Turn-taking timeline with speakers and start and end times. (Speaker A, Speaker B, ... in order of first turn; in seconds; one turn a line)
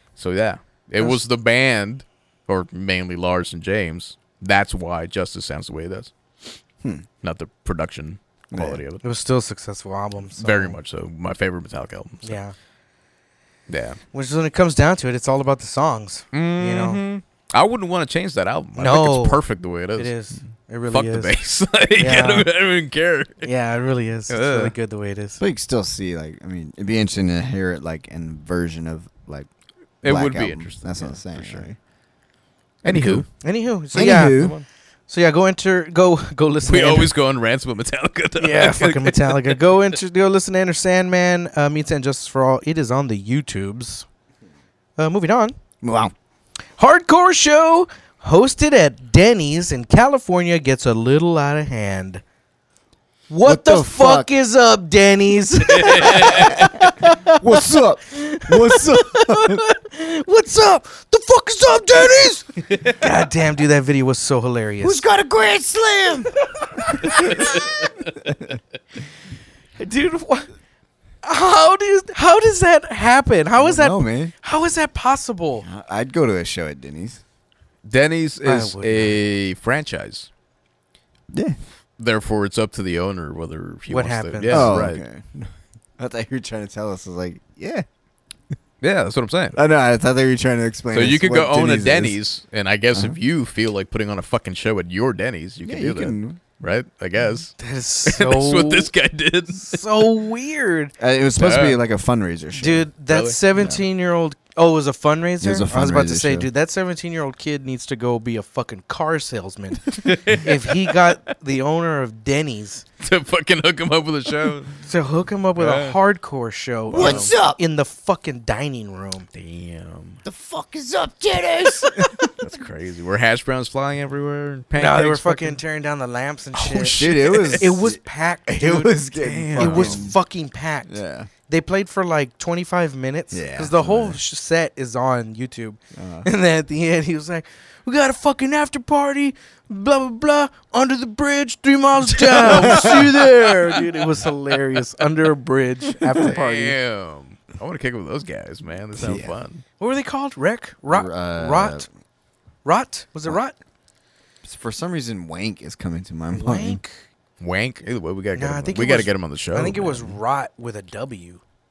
Speaker A: 0.2-6.5
Speaker A: 7.2-9.0
Speaker B: 8.5-8.8
Speaker C: 9.0-10.8
Speaker A: 10.4-12.4
Speaker C: 12.2-12.5
Speaker A: 13.7-14.0
Speaker C: 14.1-17.0
Speaker A: 16.3-20.1
Speaker C: 18.8-19.4
Speaker C: 19.9-21.3
Speaker A: 20.9-23.5
Speaker C: 22.0-22.5
Speaker C: 23.4-25.4
Speaker A: 24.3-24.7
Speaker B: 25.4-29.5
Speaker A: 30.0-31.6
Speaker B: 30.0-31.8
Speaker A: 32.8-33.2
Speaker B: 32.9-33.2
Speaker C: 33.3-34.5
Speaker B: 33.9-34.6
Speaker A: 34.4-34.6
Speaker C: 35.1-37.1
Speaker A: 36.6-39.8
Speaker C: 38.4-44.0
Speaker C: 45.0-45.5
Speaker B: 45.8-46.1
Speaker C: 46.8-52.2
Speaker C: 53.3-65.0
Speaker B: 53.4-54.3
Speaker A: 55.8-56.5
Speaker B: 55.8-59.6
Speaker B: 64.8-66.3
Speaker C: 66.5-67.7
Speaker B: 66.8-67.5
Speaker C: 69.8-70.5
Speaker C: 71.2-75.7
Speaker B: 73.6-74.3
Speaker B: 75.6-77.2
Speaker A: 77.8-80.3
Speaker C: 78.4-79.2
Speaker B: 81.3-81.6
Speaker A: 82.0-85.0
Speaker C: 83.9-84.8
Speaker B: 84.5-87.8
Speaker A: 88.8-89.6
Speaker B: 89.5-92.2
Speaker A: 90.9-97.5
Speaker B: 95.6-96.4
Speaker C: 97.6-98.9
Speaker A: 98.0-99.8
Speaker C: 99.5-100.9
Speaker B: 101.0-102.9
Speaker A: 101.4-101.8
Speaker C: 102.5-112.8
Speaker A: 103.1-103.4
Speaker B: 103.5-103.8
Speaker B: 105.4-106.5
Speaker A: 110.0-111.0
Speaker A: 113.0-114.8
Speaker C: 114.8-119.3
Speaker A: 115.5-116.0
Speaker A: 116.9-117.3
Speaker B: 116.9-117.6
Speaker A: 119.3-120.2
Speaker B: 120.2-122.3
Speaker A: 122.4-125.6
Speaker C: 124.7-127.0
Speaker A: 126.5-127.7
Speaker B: 127.0-130.2
Speaker C: 127.6-129.0
Speaker A: 129.2-130.0
Speaker C: 129.6-146.8
Speaker B: 130.8-131.3
Speaker B: 133.3-134.2
Speaker B: 135.9-136.3
Speaker A: 142.2-143.7
Speaker B: 142.4-143.2
Speaker A: 146.1-149.6
Speaker B: 148.9-149.3
Speaker C: 149.8-151.9
Speaker B: 150.9-151.9
Speaker C: 152.6-153.6
Speaker B: 154.4-156.8
Speaker C: 156.3-157.0
Speaker A: 157.4-160.1
Speaker C: 158.3-161.4